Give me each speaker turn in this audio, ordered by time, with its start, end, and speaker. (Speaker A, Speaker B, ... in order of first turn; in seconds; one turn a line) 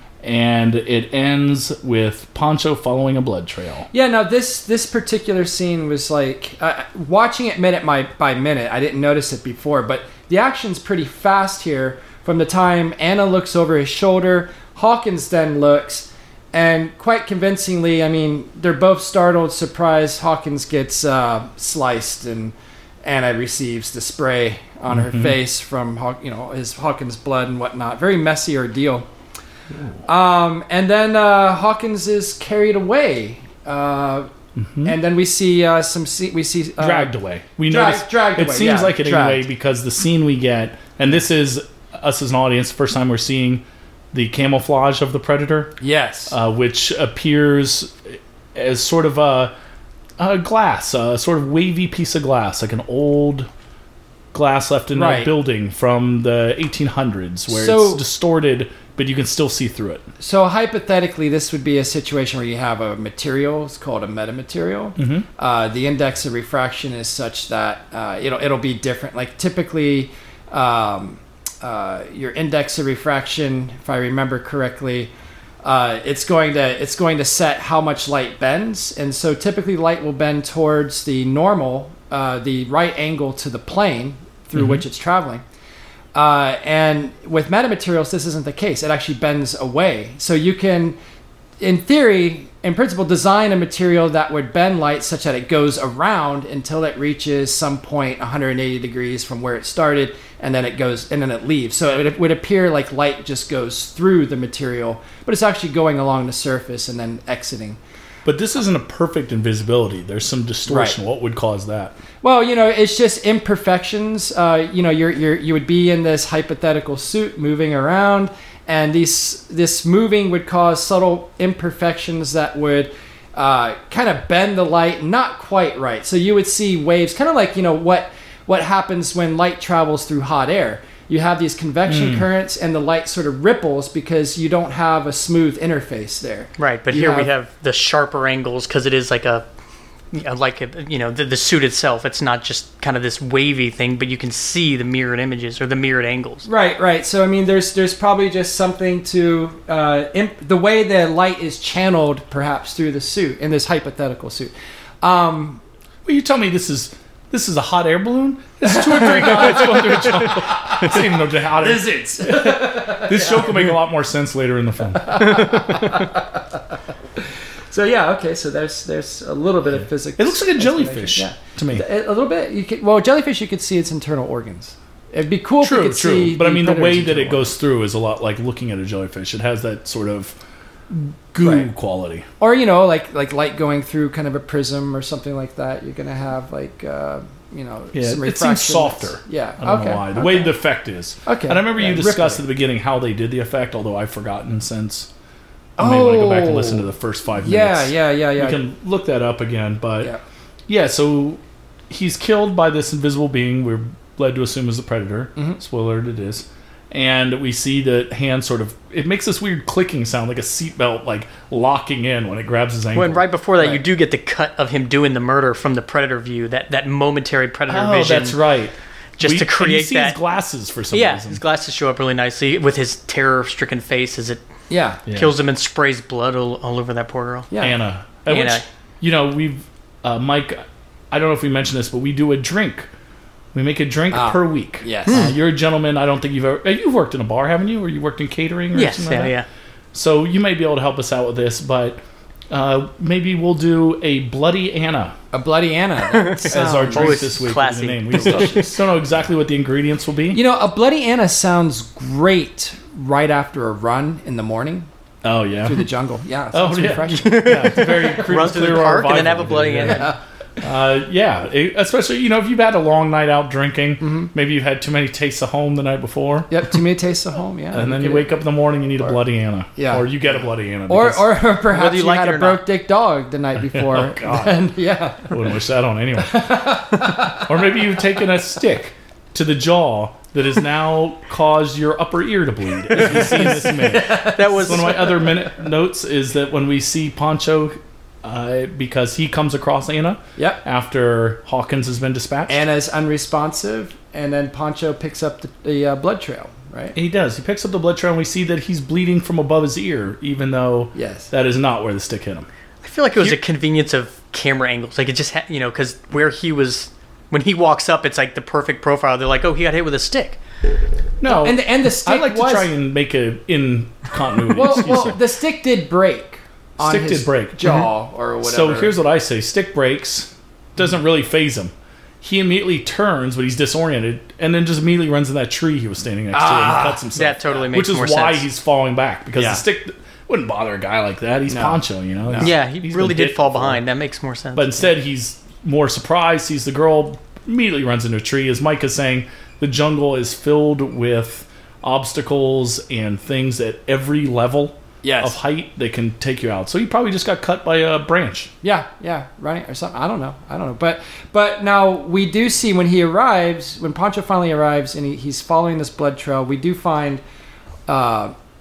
Speaker A: 0.2-3.9
Speaker B: 3.9-29.1
Speaker A: 24.9-25.4
Speaker B: 30.1-34.3
Speaker A: 34.6-35.0
Speaker B: 34.8-37.1
Speaker A: 36.8-45.8
Speaker B: 37.7-39.5
Speaker B: 45.8-46.4
Speaker A: 46.3-49.5
Speaker A: 50.2-53.5
Speaker A: 54.3-60.0
Speaker B: 54.9-55.3
Speaker B: 57.5-58.0
Speaker B: 60.2-75.1
Speaker A: 65.0-65.2
Speaker B: 75.6-85.4
Speaker A: 84.6-84.8
Speaker B: 86.1-91.0
Speaker B: 91.6-107.8
Speaker A: 108.2-112.0
Speaker B: 110.7-111.0
Speaker B: 112.2-137.3
Speaker A: 131.8-132.3
Speaker C: 136.6-139.4
Speaker C: 140.1-146.5
Speaker B: 146.4-155.6
Speaker A: 156.1-165.2
Speaker B: 159.6-160.0
Speaker B: 160.8-163.7
Speaker B: 165.0-166.4
Speaker B: 167.7-177.5
Speaker A: 170.2-171.8
Speaker A: 175.6-180.4
Speaker A: 180.9-182.3
Speaker B: 181.4-181.7
Speaker B: 182.4-190.5
Speaker A: 187.9-195.1
Speaker B: 191.3-192.4
Speaker B: 195.8-196.9
Speaker A: 195.8-200.1
Speaker B: 197.4-198.6
Speaker A: 200.7-213.2
Speaker C: 212.9-218.4
Speaker A: 217.7-221.4
Speaker C: 219.2-220.2
Speaker C: 220.9-224.4
Speaker B: 224.7-225.0
Speaker C: 225.1-227.5
Speaker A: 225.1-225.3
Speaker B: 227.5-227.8
Speaker A: 227.6-232.9
Speaker C: 228.3-228.7
Speaker A: 233.5-239.3
Speaker B: 234.1-235.3
Speaker C: 235.1-235.3
Speaker C: 238.7-239.5
Speaker A: 239.9-245.2
Speaker B: 245.3-247.4
Speaker C: 246.1-248.7
Speaker A: 246.5-250.4
Speaker B: 248.1-248.8
Speaker B: 250.3-254.9
Speaker A: 255.2-255.8
Speaker B: 255.6-257.9
Speaker A: 256.5-266.6
Speaker C: 257.1-260.1
Speaker B: 259.8-260.2
Speaker B: 264.0-264.3
Speaker B: 266.5-268.4
Speaker A: 267.7-271.3
Speaker B: 268.9-269.2
Speaker B: 269.8-270.3
Speaker B: 270.9-275.4
Speaker C: 271.6-272.6
Speaker A: 273.6-274.6
Speaker A: 275.3-292.6
Speaker B: 276.2-277.7
Speaker B: 283.0-285.4
Speaker C: 284.0-285.2
Speaker B: 290.4-290.6
Speaker B: 292.5-297.0
Speaker A: 296.9-302.5
Speaker B: 300.9-301.3
Speaker C: 302.8-310.4
Speaker A: 311.2-315.2
Speaker B: 311.2-312.7
Speaker B: 314.5-318.9
Speaker A: 316.8-317.7
Speaker A: 318.4-333.8
Speaker B: 326.3-327.1
Speaker C: 327.1-328.5
Speaker B: 329.4-329.6
Speaker B: 331.5-332.5
Speaker C: 332.4-334.9
Speaker A: 334.5-348.5
Speaker B: 345.0-345.4
Speaker B: 348.6-357.2
Speaker B: 357.9-358.3